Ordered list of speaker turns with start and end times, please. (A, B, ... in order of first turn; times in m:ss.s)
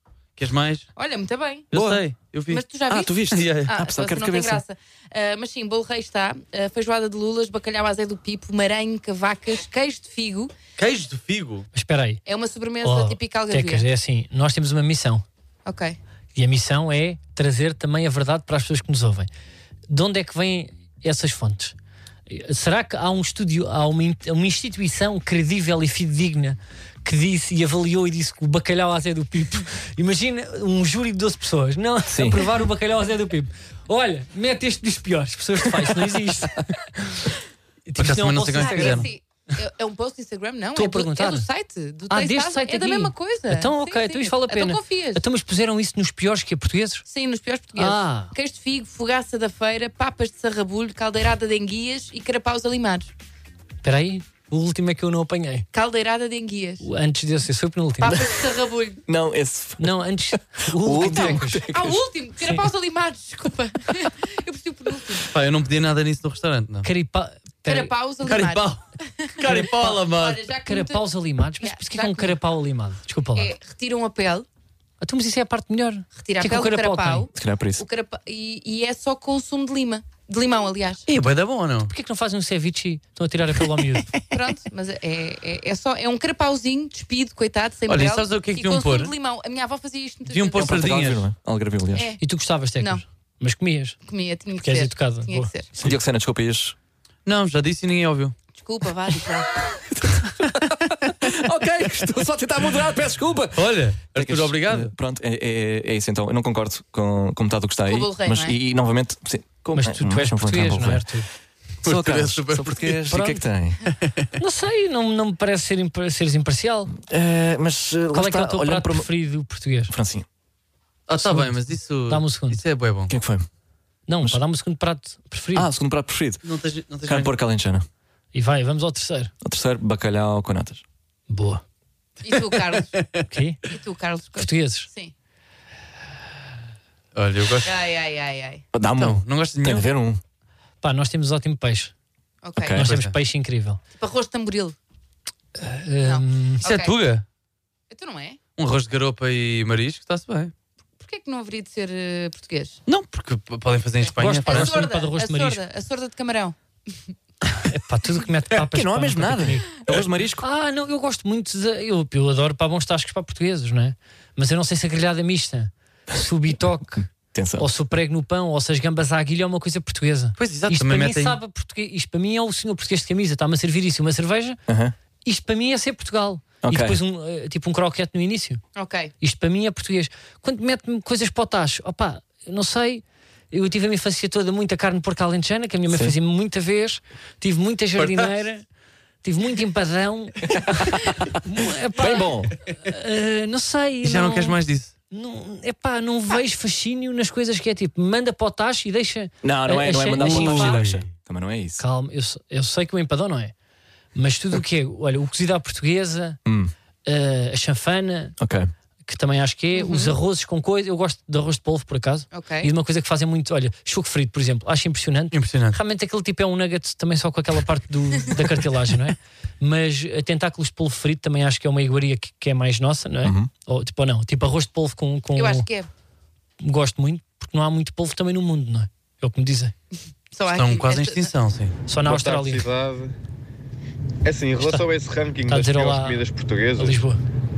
0:00.4-0:00.9 A
0:01.0-0:01.7 B
0:01.7-0:02.6 A
0:01.7-0:02.0 C
0:02.5-0:10.5 B
0:02.9-0:04.6 C
0:03.3-0:03.7 A
0:10.8-0:11.7 A
0:11.7-0:12.2 D
0:12.2-0:13.8 B
0:12.8-0:15.2 D
0:15.6-0:16.0 B
0:16.3-0:19.3 D
0:19.9-0:21.7 D
0:22.3-0:37.2 D
0:32.1-0:32.4 C
0:37.9-0:39.1 D
0:38.0-0:39.1 A
0:38.6-0:45.2 B
0:40.7-0:41.5 D
0:42.1-0:47.0 D
0:47.1-0:53.1 B
0:47.8-0:48.3 D
0:53.8-0:55.7 D
0:55.7-0:56.8 B
0:56.8-0:58.2 D
0:58.0-0:59.0 B
0:59.0-1:02.0 C
0:59.8-1:01.6 D
1:01.1-1:05.3 B
1:05.3-1:06.9 A
1:06.8-1:07.9 D
1:07.7-1:11.0 B
1:08.2-1:08.8 A
1:09.4-1:10.4 A
1:10.6-1:13.5 D
1:11.6-1:12.4 B
1:13.4-1:14.4 B
1:15.0-1:17.3 D
1:16.2-1:21.0 B
1:17.3-1:17.8 C
1:21.1-1:21.9 A
1:21.9-1:24.1 D
1:24.3-1:30.8 B
1:27.9-1:29.1 A
1:30.3-1:31.2 A
1:30.5-1:32.1 C
1:31.9-1:32.2 B
1:32.2-1:34.0 D
1:34.0-1:35.7 B
1:34.6-1:35.5 D
1:35.8-1:36.8 C
1:37.2-1:38.3 A
1:38.6-1:39.5 B
1:39.7-1:51.0 C
1:43.6-1:44.9 A
1:47.8-1:48.5 B
1:49.7-1:51.2 D
1:51.8-1:53.0 A
1:51.8-1:53.8 C
1:53.1-1:53.4 D
1:53.9-1:54.2 A
1:54.4-1:56.9 D
1:56.9-1:59.1 C
1:58.1-1:59.9 D
1:59.9-2:00.2 C
2:01.1-2:03.1 A
2:01.2-2:02.6 D
2:03.1-2:03.4 C
2:04.1-2:05.7 D
2:05.5-2:06.4 C
2:06.4-2:07.3 A
2:07.0-2:07.8 C
2:08.3-2:09.3 D
2:09.4-2:10.8 C
2:11.3-2:11.6 D
2:12.2-2:13.0 B
2:12.3-2:13.2 A
2:13.3-2:13.6 D
2:13.6-2:15.1 B
2:14.4-2:14.9 D
2:17.1-2:17.7 A
2:17.6-2:18.6 B
2:18.7-2:20.2 C
2:19.0-2:19.9 A
2:20.8-2:21.9 D
2:22.4-2:22.8 B
2:22.7-2:23.1 A
2:22.8-2:23.8 D
2:24.0-2:24.8 B
2:25.6-2:26.6 D
2:26.0-2:27.0 B
2:26.6-2:27.2 A
2:27.9-2:28.4 B
2:28.6-2:30.5 A
2:31.0-2:32.8 B
2:32.9-2:34.8 A
2:34.0-2:37.1 B
2:34.2-2:35.6 D
2:37.5-2:39.7 D
2:38.6-2:40.4 C
2:40.4-2:54.6 D
2:47.3-2:47.7 C
2:50.4-2:51.4 A
2:54.7-2:54.9 C
2:55.2-2:58.6 D
2:56.6-2:57.0 C
2:58.8-2:59.1 B
2:59.2-3:08.6 D
3:05.9-3:06.1 C
3:08.0-3:08.3 A
3:09.2-3:14.6 D
3:10.5-3:11.1 C
3:12.0-3:12.5 C
3:14.0-3:14.9 A
3:15.1-3:20.8 D
3:19.4-3:21.8 C
3:20.1-3:21.0 A
3:21.8-3:23.5 D
3:24.1-3:26.4 D
3:26.4-3:26.7 C
3:27.0-3:28.4 D
3:28.4-3:28.7 C
3:29.1-3:45.7 D
3:29.7-3:30.2 B
3:32.3-3:32.7 B
3:35.3-3:35.8 A
3:43.2-3:43.5 C
3:45.4-3:45.9 B
3:46.6-3:49.7 D
3:50.3-3:51.3 B
3:50.5-3:51.7 A
3:51.9-3:52.6 D
3:52.0-3:53.1 E
3:54.2-3:57.0 E
3:55.5-3:56.2 D
3:56.8-3:57.2 D